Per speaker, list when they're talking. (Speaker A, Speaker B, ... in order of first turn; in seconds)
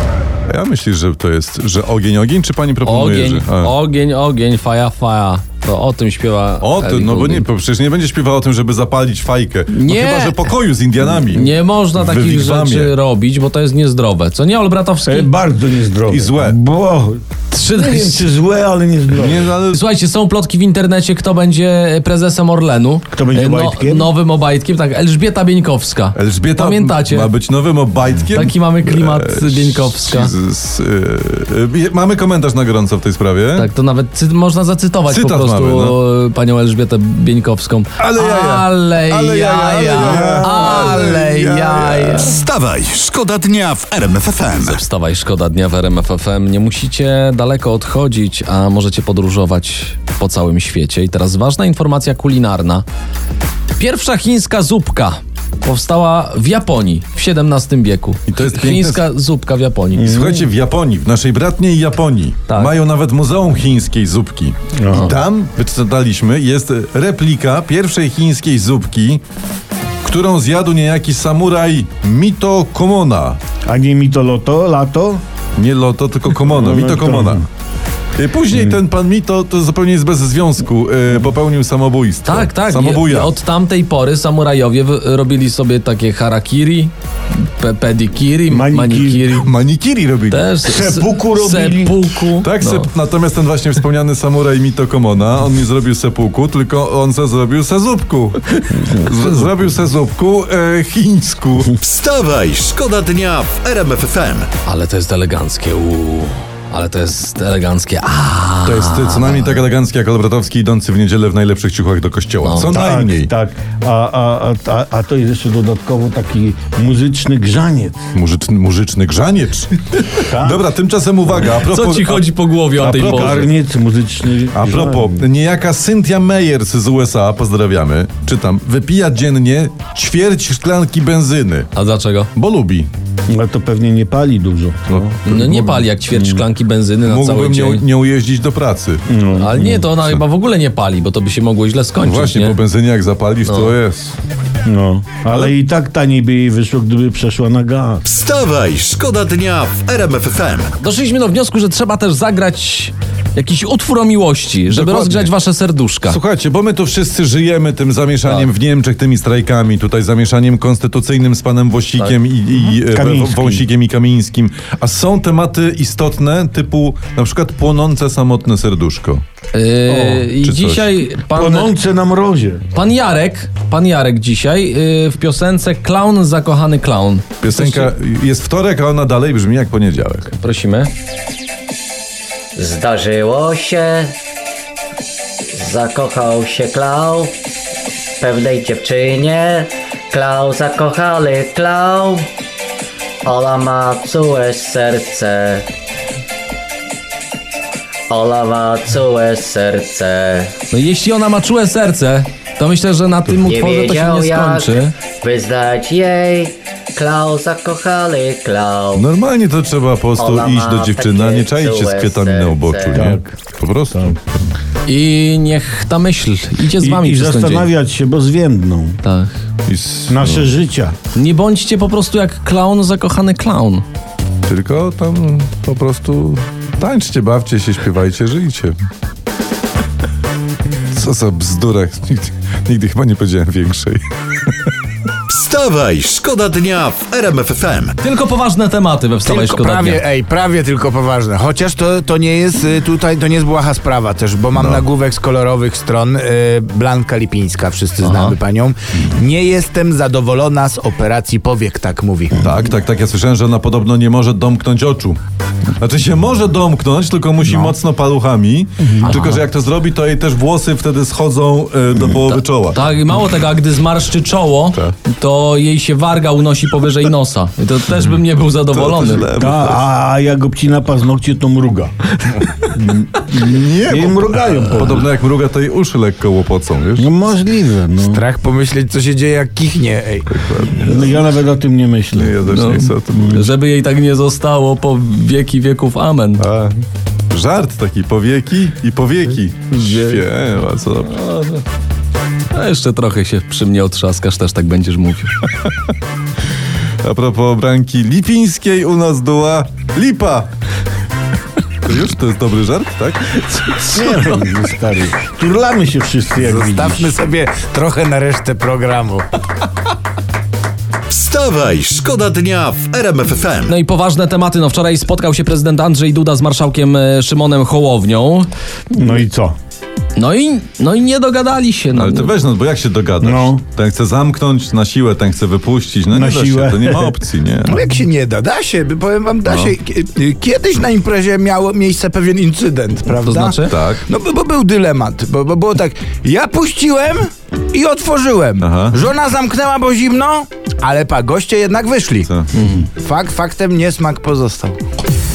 Speaker A: 0.5-3.7, 6.6-12.9, 16.1-16.6, 19.1-19.8, 26.1-33.7, 35.1-36.0, 38.0-42.3, 58.3-59.0, 60.0-69.2, 70.0-73.4, 75.6-77.4, 78.2-83.3, 89.4-90.5, 92.4-101.8, 108.7-113.3, 118.1-123.5, 124.5-131.7, 132.3-132.9, 134.9-135.2, 137.1-139.1, 139.8-140.2, 142.0-144.1, 154.7-155.3, 156.1-169.2, 170.4-170.9, 177.4-180.3, 208.9-214.5, 219.7-220.5, 224.5-228.8, 230.9-234.0, 244.5-244.8, 252.4-255.2, 255.8-262.8, 268.7-269.9, 273.3-277.1, 280.3-281.3, 282.1-283.5, 286.4-291.1, 297.0-300.5, 301.9-303.3, 321.9-327.8, 329.5-329.7, 333.7-334.0, 338.6-339.0
Speaker B: 2.9-7.5, 9.7-10.5, 11.1-15.3, 17.5-18.3, 19.7-27.4, 28.3-30.3, 33.6-42.4, 44.5-52.9, 53.8-60.2, 62.5-62.7, 82.3-89.5, 90.3-92.9, 104.7-109.6, 112.4-112.8, 121.5-123.5, 131.8-132.3, 135.2-137.8, 139.4-142.6, 143.5-143.7, 150.8-156.2, 158.2-158.5, 169.5-171.7, 172.7-177.9, 180.4-180.9, 200.7-204.9, 214.8-217.7, 219.0-219.3, 221.1-223.8, 238.0-240.0, 248.0-248.3, 259.0-259.4, 262.2-269.3, 282.4-286.4, 289.7-290.2, 291.1-291.6, 292.5-295.4, 313.7-318.5, 320.2-322.4, 333.2-333.8, 342.5-342.9
Speaker C: 15.0-17.2, 17.7-19.5, 23.1-24.1, 39.9-41.0, 60.0-60.5, 64.7-65.2, 73.7-75.2, 76.4-77.5, 88.5-89.4, 90.6-92.3, 112.7-118.1, 120.3-120.6, 122.8-125.2, 133.3-136.5, 139.1-139.9, 144.7-148.1, 162.9-163.6, 169.9-170.3, 171.3-172.6, 212.9-213.3, 216.8-219.0, 220.1-221.0, 269.4-271.9, 272.6-275.1, 277.0-278.2, 280.7-283.5, 303.8-307.2, 318.9-319.6, 323.2-323.6, 326.1-327.2
Speaker D: 42.3-44.8, 101.8-104.5, 148.0-150.7, 235.3-238.0, 311.1-313.8
Speaker E: 182.6-184.2, 185.5-187.4, 188.2-192.3, 193.2-195.7, 198.1-200.6, 203.3-209.1, 210.2-213.1
Speaker F: 239.2-252.3, 278.1-280.4, 306.4-309.3, 327.7-342.3, 343.0-344.8